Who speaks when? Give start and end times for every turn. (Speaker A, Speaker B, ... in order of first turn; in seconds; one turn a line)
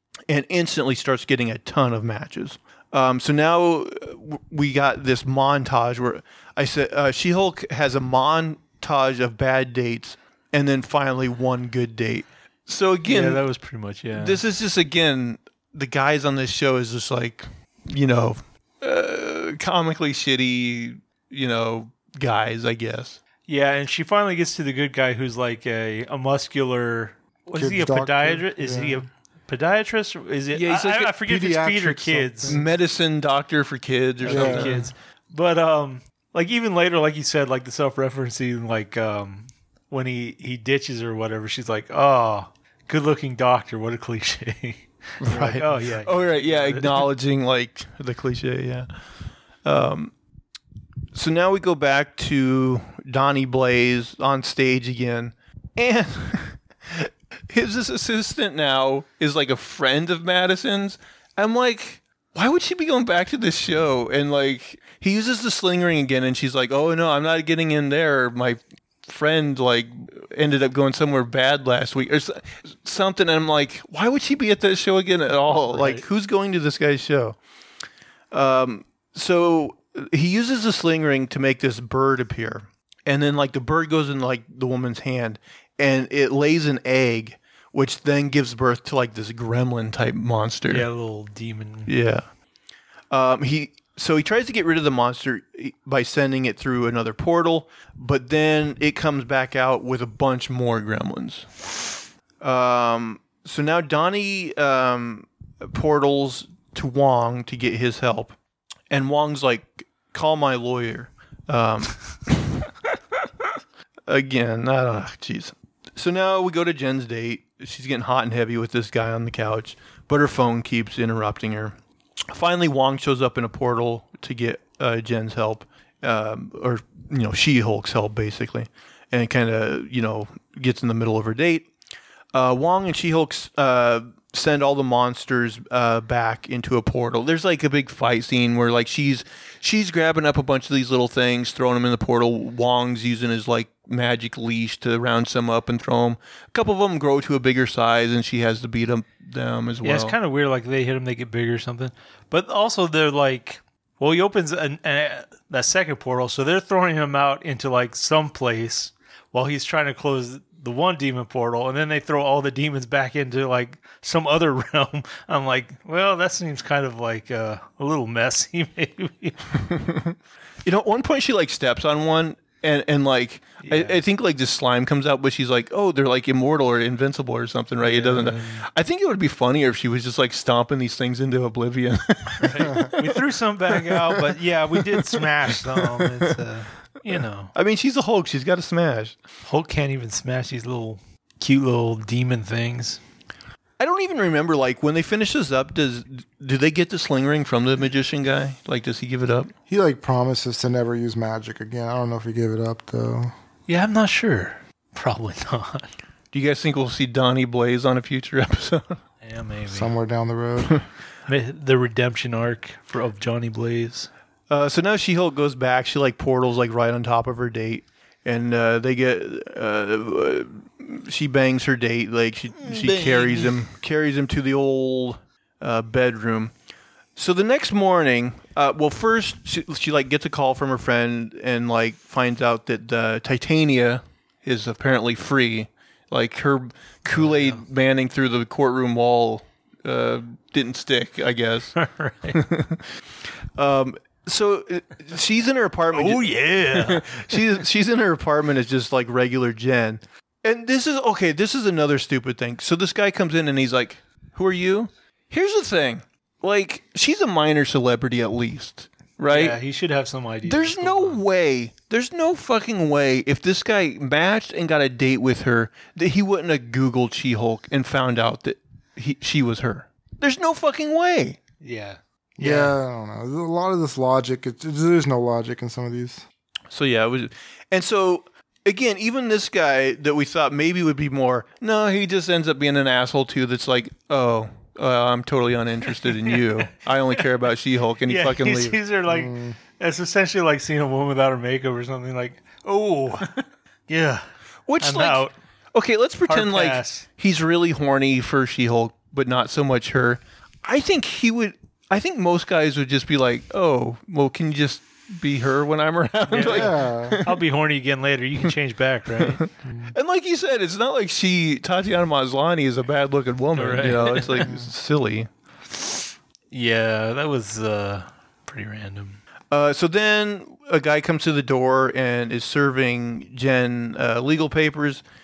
Speaker A: 0.3-13.4
Speaker B: 13.0-14.4
Speaker A: 14.1-23.2
Speaker B: 23.5-32.6
Speaker C: 27.5-29.0
Speaker A: 30.5-31.2
Speaker C: 31.2-32.6
Speaker A: 32.5-34.9
Speaker B: 34.2-47.1
Speaker C: 34.3-34.9
Speaker A: 45.2-48.9
Speaker A: 49.6-50.1
Speaker A: 51.1-77.4
Speaker B: 75.4-76.0
Speaker A: 78.3-90.9
Speaker B: 90.7-91.9
Speaker A: 91.9-92.2
Speaker A: 93.1-101.7
Speaker A: 102.4-108.3
Speaker A: 108.9-112.7
Speaker A: 114.1-121.8
Speaker A: 122.3-131.7
Speaker A: 132.3-150.2
Speaker B: 149.8-169.5
Speaker A: 169.6-186.3
Speaker B: 173.6-174.0
Speaker B: 177.8-178.6
Speaker B: 182.4-187.5
Speaker C: 182.7-182.9
Speaker A: 187.1-189.2
Speaker B: 189.4-193.0
Speaker A: 193.8-199.5
Speaker C: 199.7-203.3
Speaker B: 203.7-205.9
Speaker A: 206.3-209.0
Speaker B: 209.2-209.9
Speaker C: 209.7-210.8
Speaker B: 211.2-214.1
Speaker A: 214.5-226.5
Speaker B: 222.6-223.5
Speaker A: 227.2-241.7
Speaker B: 237.1-237.6
Speaker B: 241.7-242.4
Speaker A: 242.3-242.9
Speaker A: 243.6-259.6
Speaker B: 245.9-247.5
Speaker B: 259.3-261.2
Speaker A: 260.4-271.4
Speaker B: 271.6-272.7
Speaker C: 272.4-276.2
Speaker A: 276.7-288.8
Speaker B: 286.2-286.5
Speaker B: 288.1-293.3
Speaker C: 289.1-289.6
Speaker B: 293.9-294.3
Speaker A: 294.7-307.4
Speaker B: 294.8-295.3
Speaker B: 296.3-297.1
Speaker B: 306.3-309.4
Speaker C: 306.4-307.2
Speaker A: 309.1-315.3
Speaker C: 309.6-309.9
Speaker B: 313.5-314.5
Speaker B: 316.5-319.2
Speaker A: 319.5-325.0